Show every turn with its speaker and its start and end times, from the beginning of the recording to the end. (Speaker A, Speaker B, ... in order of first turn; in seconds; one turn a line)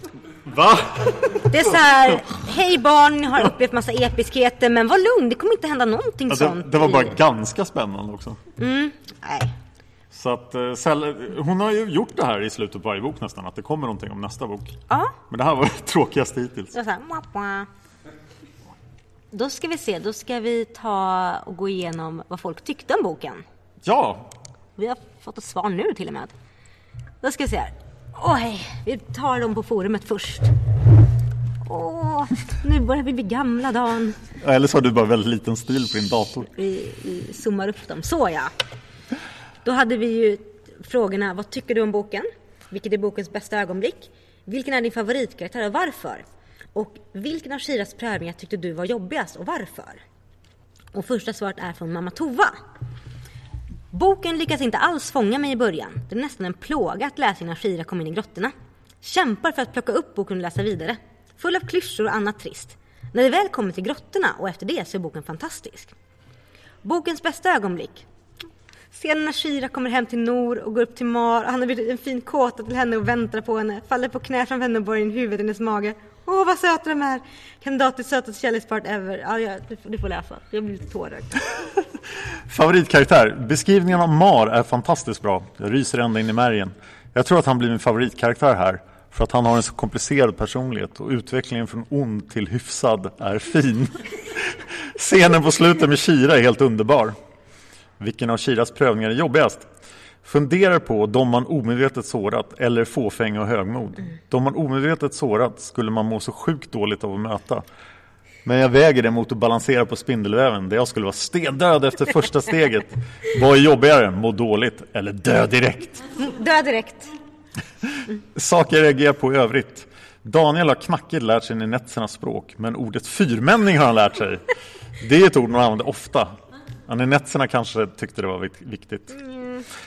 Speaker A: 0.4-1.8
Speaker B: 1.5-7.1
Speaker A: 6.3-8.4
Speaker B: 8.6-9.5
Speaker A: 10.1-14.8
Speaker B: 14.9-15.2
Speaker A: 15.3-16.7
Speaker B: 16.7-17.7
Speaker B: 19.3-23.4
Speaker A: 23.8-24.3
Speaker B: 24.8-26.3
Speaker B: 27.2-30.5
Speaker B: 31.6-34.2
Speaker A: 34.4-36.5
Speaker B: 36.5-38.5
Speaker B: 39.6-50.0
Speaker B: 50.9-52.6
Speaker B: 53.9-65.9
Speaker B: 66.8-68.0
Speaker B: 68.9-81.5
Speaker A: 82.5-97.2
Speaker A: 98.0-99.7
Speaker A: 100.2-107.6
Speaker A: 108.4-116.1
Speaker B: 116.2-117.1
Speaker A: 118.3-124.4
Speaker A: 125.0-126.3
Speaker A: 126.9-129.2
Speaker B: 129.3-129.6